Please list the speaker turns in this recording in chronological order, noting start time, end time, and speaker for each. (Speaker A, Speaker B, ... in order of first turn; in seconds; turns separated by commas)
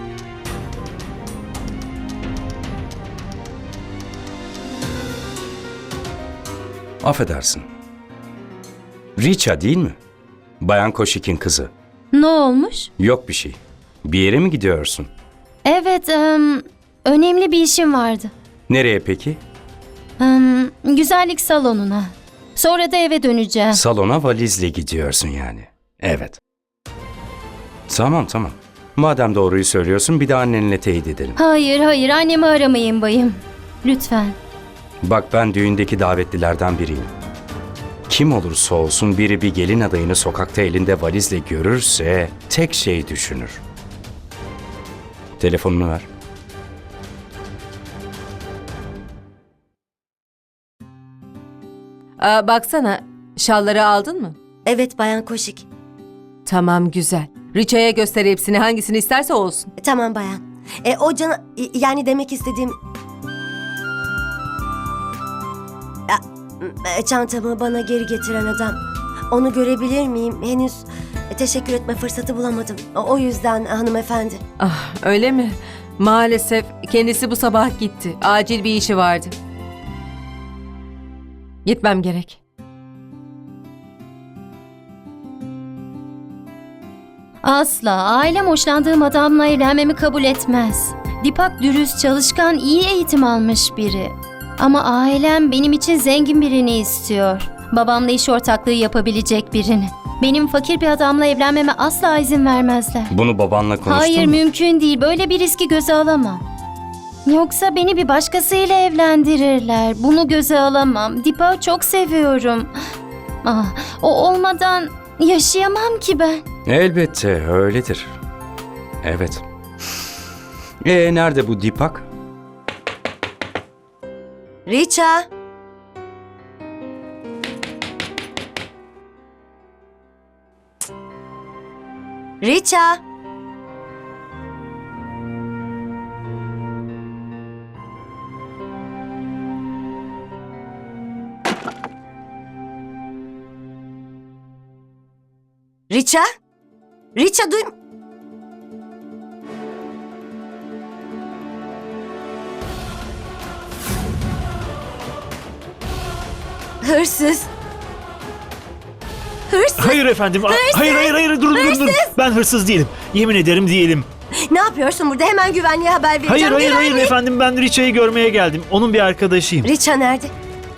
Speaker A: 7.0-7.7, Speaker A: 9.2-10.0, Speaker A: 10.6-11.7, Speaker B: 12.1-12.9, Speaker A: 13.0-15.1, Speaker B: 15.7-18.3, Speaker A: 18.7-19.4, Speaker B: 20.2-23.8, Speaker A: 23.7-26.4, Speaker A: 27.9-31.4, Speaker B: 31.4-34.4, Speaker A: 35.0-37.1, Speaker A: 38.1-43.6, Speaker A: 45.4-46.1, Speaker C: 52.2-54.4, Speaker D: 54.7-55.7, Speaker C: 56.5-59.7, Speaker D: 59.8-62.8, Speaker D: 66.1-68.8, Speaker D: 69.3-74.4, Speaker C: 74.6-79.3, Speaker C: 81.7-82.4, Speaker B: 87.4-103.1, Speaker A: 103.1-104.4, Speaker B: 103.9-106.4, Speaker B: 107.2-112.7, Speaker B: 113.4-116.4, Speaker A: 116.7-118.1, Speaker A: 119.0-119.4, Speaker A: 120.8-122.1, Speaker D: 124.7-125.3, Speaker D: 132.4-133.0, Speaker D: 145.9-146.3, Speaker D: 147.2-147.7, Speaker D: 156.8-157.5, Speaker D: 159.5-162.1, Speaker E: 159.8-164.1, Speaker D: 164.5-167.1, Speaker E: 166.3-169.7, Speaker D: 169.6-170.3